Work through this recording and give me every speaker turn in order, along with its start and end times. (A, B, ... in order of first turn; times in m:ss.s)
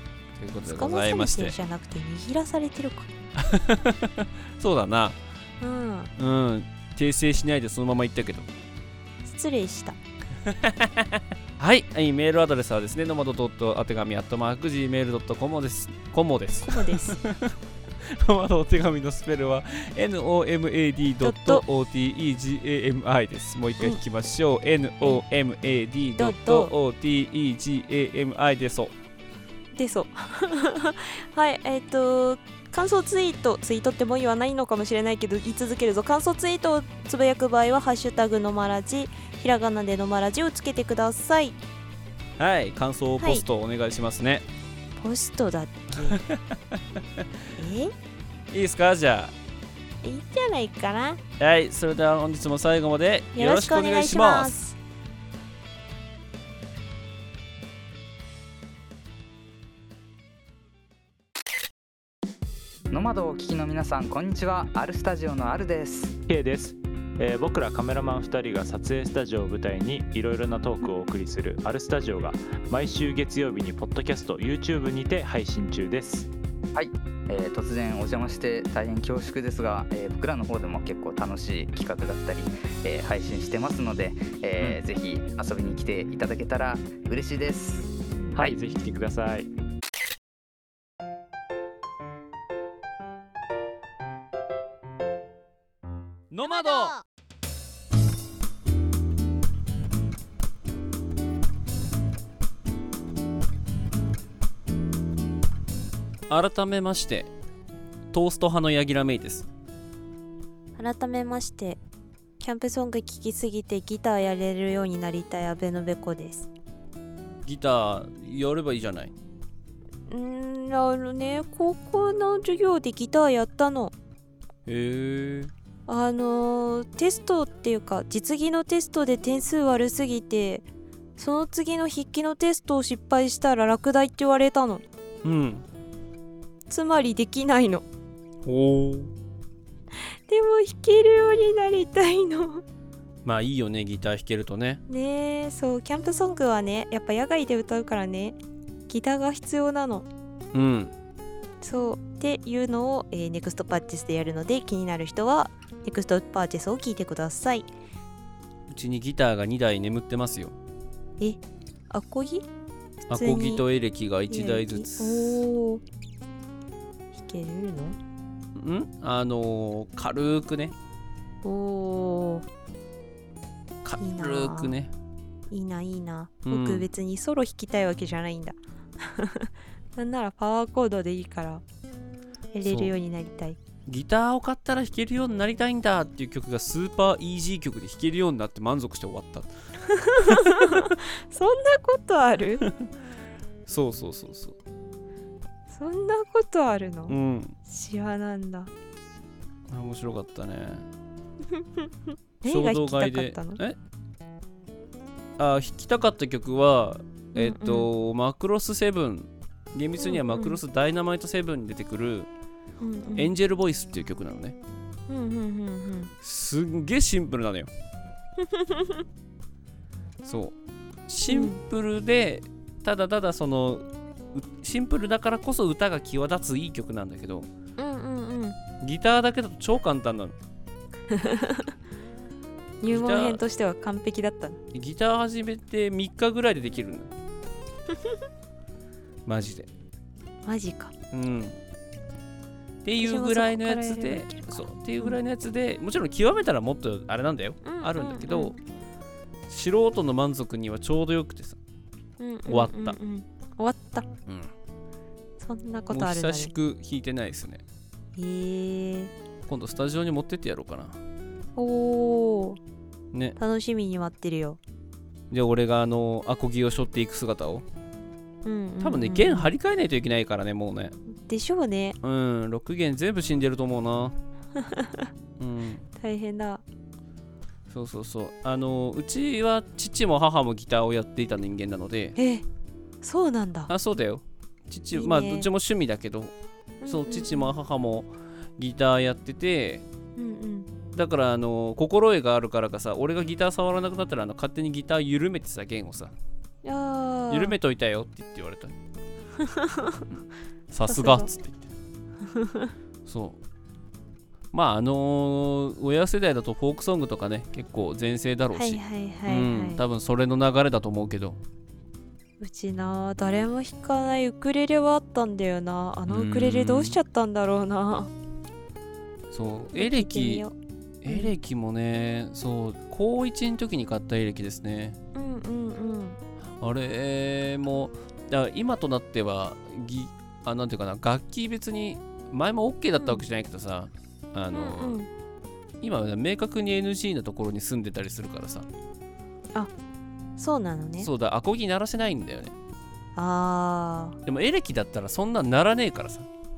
0:00.4-0:01.5 A
0:00.7-0:03.1 B
0:03.4-0:05.2 A
0:05.6-0:06.1 B
0:06.2-0:08.5 A
0:09.2-0:10.0 B
0:10.5-0:17.5 A
0:16.7-0:17.2 B
0:18.0-0:28.9 A
0:21.2-0:21.6 B
0:26.2-0:26.7 B
0:29.7-0:41.6 B
0:42.4-0:44.4 A
0:43.2-0:43.4 B
0:45.0-0:46.2 B
0:46.0-0:46.4 A
0:47.6-0:47.9 B
0:48.5-0:49.3 A
0:50.0-0:51.2 B
0:51.4-0:54.6 A
0:53.3-0:54.8 B
1:02.9-1:06.2 C
1:06.3-1:16.3 D
1:16.7-1:27.9 C
1:28.3-1:29.5 D
1:36.3-1:37.0 A
1:46.3-1:47.3 A
1:48.1-1:49.4 A
1:50.8-1:51.8 B
1:52.4-1:56.5 B
1:57.4-1:59.1 A
2:00.1-2:03.9 B
2:04.7-2:05.5 A
2:05.9-2:10.6 B
2:11.2-2:14.8 B
2:15.2-2:15.6 A
2:16.7-2:17.8 B
2:18.4-2:19.1 A
2:20.3-2:22.6 B
2:23.2-2:24.8 A
2:24.9-2:28.4 B
2:28.9-2:30.1 B
2:30.5-2:30.9 A
2:31.6-2:37.7 B
2:38.7-2:40.5 A
2:41.2-2:42.4 B
2:43.1-2:45.4 A
2:43.1-2:43.6 B
2:44.3-2:45.8 B
2:47.1-2:48.0 B
2:48.6-2:50.7 A
2:51.4-2:52.4 B
2:53.8-2:54.9 A
2:54.0-2:54.7 B
2:55.5-3:01.6 B
2:56.5-2:56.9 A
3:02.5-3:03.6 B
3:02.6-3:02.9 A
3:03.9-3:09.5 A
3:09.9-3:12.6 B
3:10.2-3:10.9 A
3:13.7-3:14.5 A
3:15.7-3:17.1 B
3:17.1-3:17.5 A
3:17.6-3:18.7 B
3:19.7-3:20.8 A
3:21.6-3:21.9 B
3:22.4-3:23.6 B
3:22.4-3:23.8 A
3:25.4-3:32.3 A
3:27.3-3:27.9 B
3:30.0-3:30.6 B
3:32.8-3:33.3 B
3:33.2-3:34.6 A
3:35.1-3:36.1 B
3:36.2-3:37.7 A
3:38.4-3:39.0 B
3:40.2-3:40.5 A
3:41.1-3:47.5 A
3:41.3-3:41.6 B
3:47.8-3:48.6 B
3:48.8-3:50.3 A
3:51.1-3:51.6 B
3:52.8-3:54.6 B
3:52.9-3:53.4 A
3:54.7-3:57.1 A
3:59.2-3:59.7 A
4:00.4-4:00.9 B
4:01.1-4:01.6 A
4:02.8-4:08.6 A
4:03.0-4:05.2 B
4:07.6-4:08.6 B
4:09.5-4:11.6 A
4:12.2-4:14.0 B
4:12.5-4:13.0 A
4:15.4-4:16.5 B
4:15.9-4:17.6 A
4:18.2-4:19.1 B
4:19.4-4:21.0 A
4:21.6-4:22.6 B
4:23.4-4:24.6 B
4:25.3-4:27.6 A
4:28.4-4:29.5 B
4:28.8-4:30.9 A
4:31.1-4:32.0 B
4:32.0-4:34.1 A
4:34.6-4:35.1 B
4:35.4-4:35.8 A
4:36.0-4:36.6 B
4:37.7-4:42.2 A
4:42.2-4:42.4 B
4:43.0-4:43.7 B
4:43.7-4:46.3 A
4:44.9-4:45.5 B
4:46.8-4:47.5 B
4:46.8-4:49.8 A
4:50.2-4:50.7 B
4:50.9-4:56.1 A
4:56.6-4:57.5 B
4:57.3-4:58.7 A
4:59.4-5:00.0 B
5:00.7-5:01.7 A
5:00.9-5:01.3 B
5:02.2-5:02.7 B
5:03.0-5:03.4 A
5:04.5-5:11.4 A
5:08.5-5:09.8 B
5:12.4-5:18.1 B
5:16.1-5:17.0 A
5:19.3-5:20.4 A
5:19.7-5:20.5 B
5:21.0-5:25.0 A
5:25.1-5:26.2 B
5:26.6-5:35.0 A
5:34.5-5:35.1 B
5:35.8-5:38.7 A
5:40.4-5:41.1 B
5:41.0-5:42.5 A
5:43.2-5:44.2 B
5:44.2-5:46.3 A